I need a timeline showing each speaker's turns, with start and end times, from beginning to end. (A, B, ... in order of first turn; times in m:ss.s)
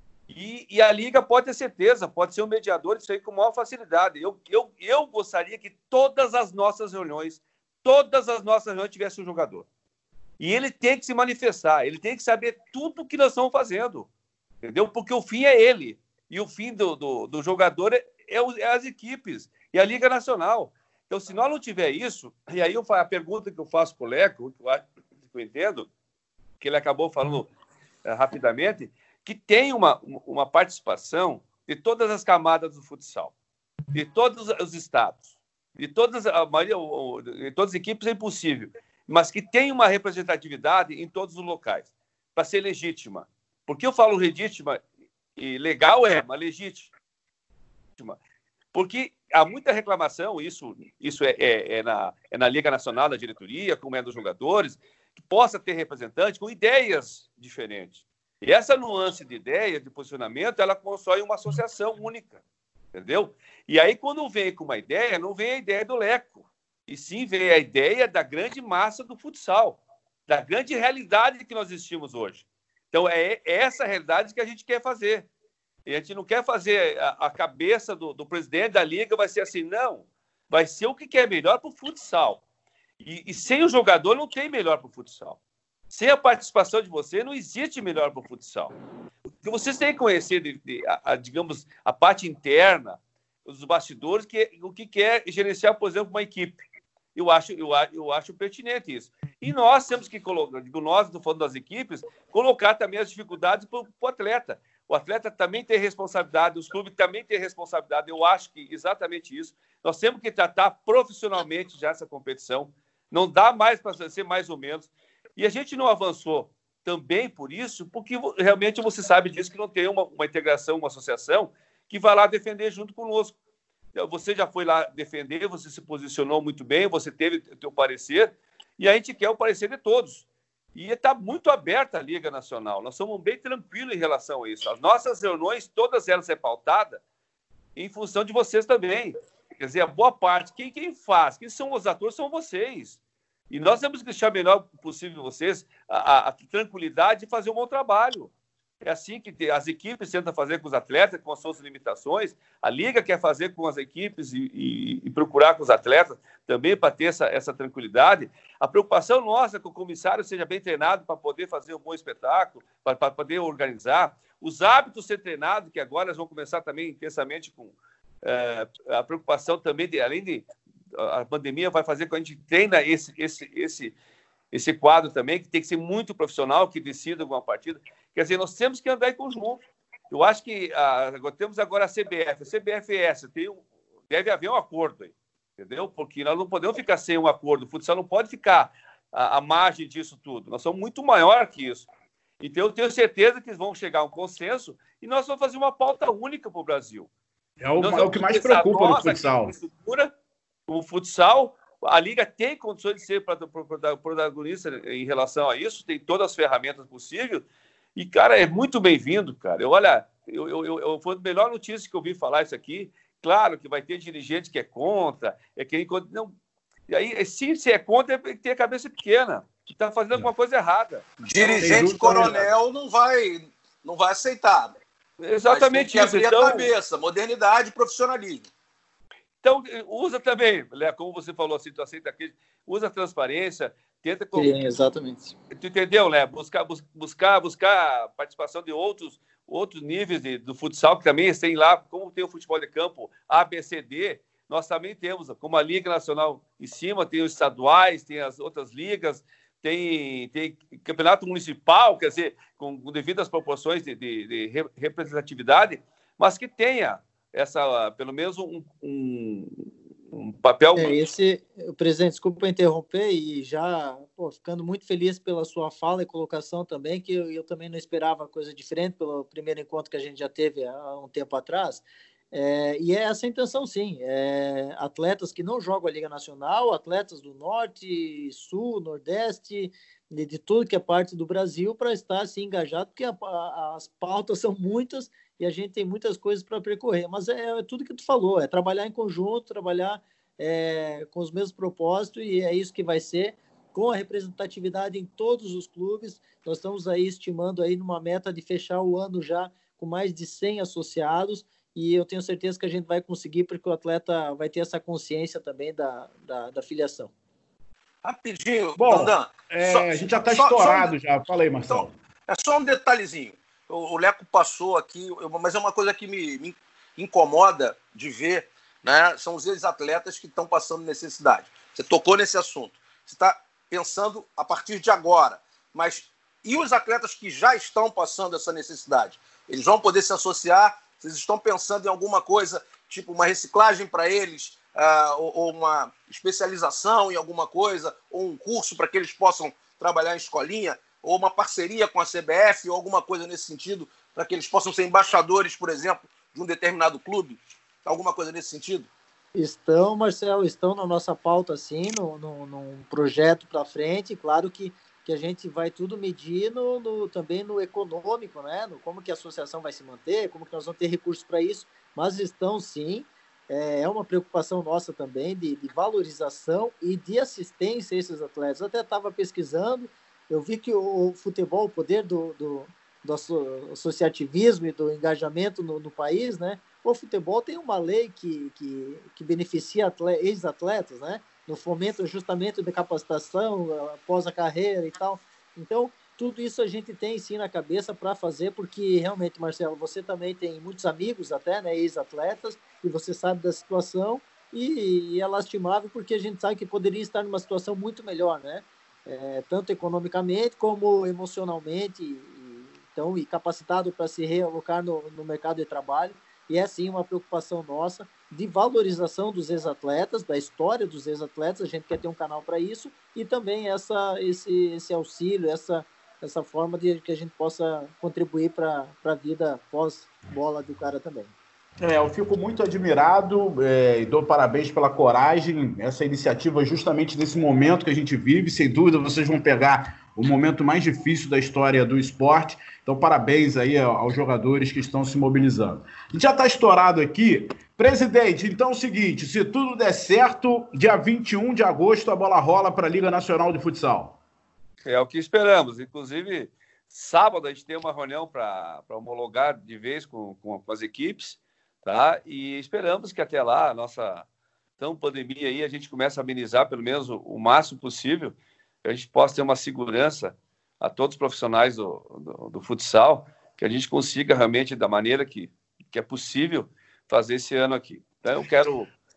0:00.3-0:09.7 A
0:10.4-0:14.1 A
0:14.6-0:25.9 A
0:26.6-0:27.5 A
0:28.0-0:33.3 A
0:33.9-0:35.2 A
0:35.8-0:44.8 A
0:45.4-0:46.9 A
0:48.7-1:02.4 A
1:02.9-1:15.3 A
1:15.9-1:22.4 A
1:23.0-1:25.4 A
1:25.9-1:28.7 A
1:29.4-1:36.6 A
1:37.1-2:03.3 A
2:03.9-2:17.0 A
2:17.8-2:23.0 A
2:23.5-2:28.3 A
2:28.8-2:53.9 A
2:54.5-3:11.9 A
3:12.4-3:17.1 A
3:17.6-3:19.5 B
3:17.8-3:20.1 A
3:20.7-3:27.4 A
3:28.0-3:36.3 A
3:36.9-3:41.8 A
3:41.2-3:44.7 C
3:41.6-3:42.5 B
3:45.2-3:46.7 A
3:45.5-3:48.5 C
3:49.4-3:54.6 A
3:54.3-3:55.3 D
3:55.5-4:21.0 A
4:20.8-5:07.1 D
5:08.0-5:10.9 C
5:08.8-5:11.9 B
5:11.7-5:48.9 C
5:49.4-7:01.3 D
7:01.8-7:24.2 B
7:24.8-7:34.2 A
7:34.8-7:48.9 A